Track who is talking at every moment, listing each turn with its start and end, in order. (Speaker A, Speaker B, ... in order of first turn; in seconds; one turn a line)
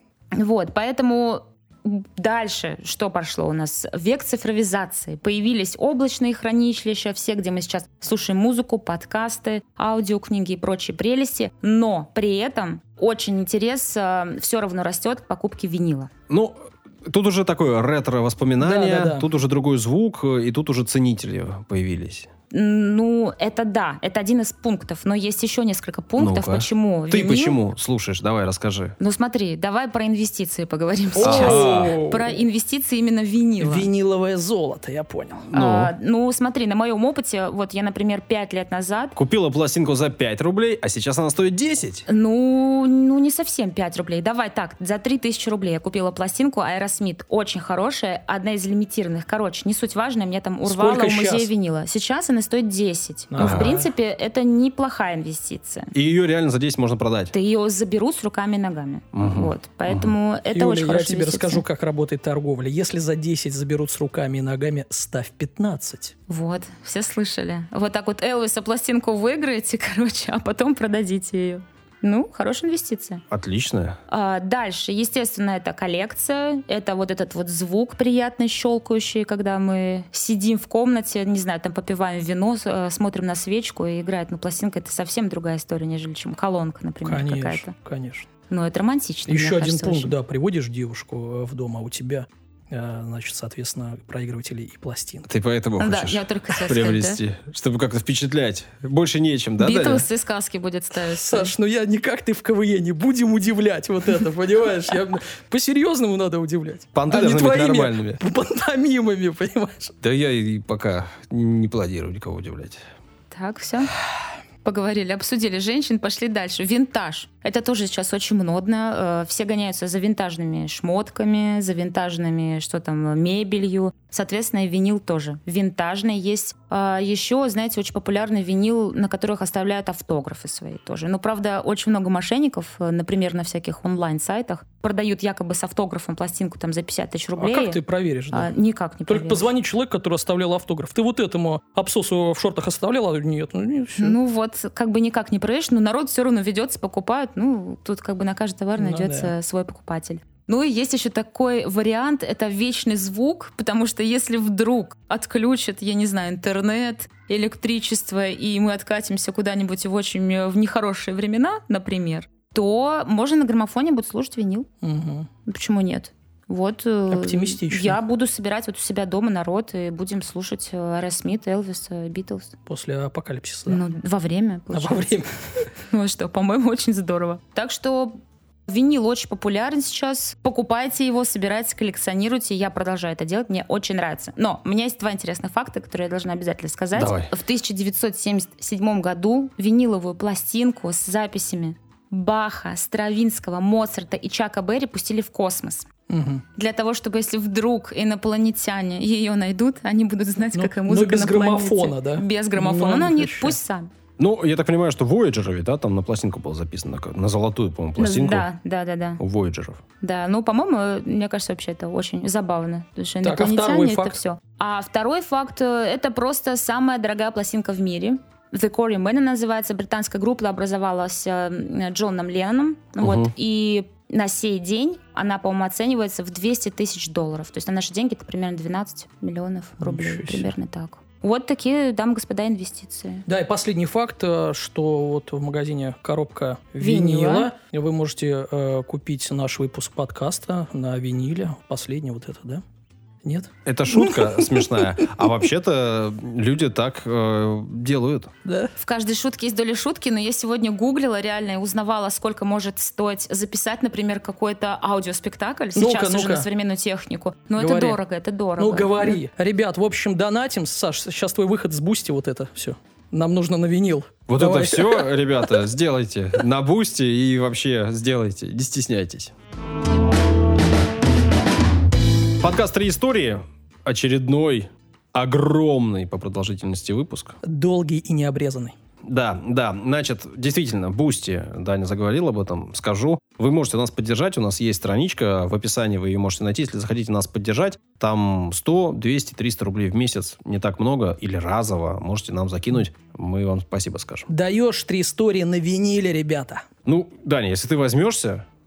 Speaker A: 0.3-16.1
Speaker B: 16.3-22.3
Speaker C: 18.6-19.3
Speaker A: 22.5-27.6
Speaker B: 26.2-29.0
Speaker A: 29.0-33.9
Speaker C: 31.1-32.4
Speaker B: 31.2-32.0
Speaker C: 33.6-35.5
Speaker B: 35.5-35.9
Speaker A: 35.5-39.1
Speaker B: 39.1-42.1
Speaker A: 42.1-55.9
Speaker C: 50.6-51.5
Speaker C: 53.3-53.9
Speaker B: 53.4-53.7
Speaker B: 55.9-57.3
Speaker A: 57.3-61.6
Speaker B: 59.1-60.1
Speaker C: 60.5-66.2
Speaker A: 66.3-73.2
Speaker B: 73.3-74.0
Speaker A: 74.1-87.7
Speaker C: 87.0-88.3
Speaker A: 88.5-90.1
Speaker C: 89.3-95.3
Speaker B: 95.3-100.0
Speaker A: 95.8-97.2
Speaker A: 99.6-101.5
Speaker C: 101.1-110.0
Speaker B: 107.0-108.2
Speaker B: 110.0-112.8
Speaker A: 113.3-113.9
Speaker A: 114.6-137.8
Speaker C: 137.4-138.5
Speaker A: 138.3-139.5
Speaker C: 139.1-144.2
Speaker A: 144.0-164.7
Speaker C: 148.8-149.3
Speaker C: 164.8-165.3
Speaker A: 165.4-172.6
Speaker C: 167.1-168.0
Speaker C: 172.7-173.8
Speaker A: 173.7-175.2
Speaker C: 174.7-175.3
Speaker A: 175.8-195.9
Speaker B: 186.9-187.3
Speaker C: 196.1-196.4
Speaker A: 196.6-203.9
Speaker C: 200.6-203.6
Speaker B: 204.2-208.5
Speaker A: 208.0-209.2
Speaker B: 209.2-209.8
Speaker A: 210.0-233.2
Speaker C: 213.2-214.2
Speaker B: 223.0-223.3
Speaker C: 229.8-230.5
Speaker C: 233.3-242.6
Speaker A: 236.8-237.5
Speaker C: 243.2-245.3
Speaker B: 243.7-248.3
Speaker C: 248.4-248.7
Speaker A: 248.8-259.2
Speaker C: 255.8-256.5
Speaker C: 257.6-258.0
Speaker C: 258.6-265.6
Speaker B: 264.3-269.3
Speaker B: 272.4-277.4
Speaker C: 277.4-278.8
Speaker B: 279.0-294.3
Speaker C: 294.3-296.6
Speaker B: 296.9-298.4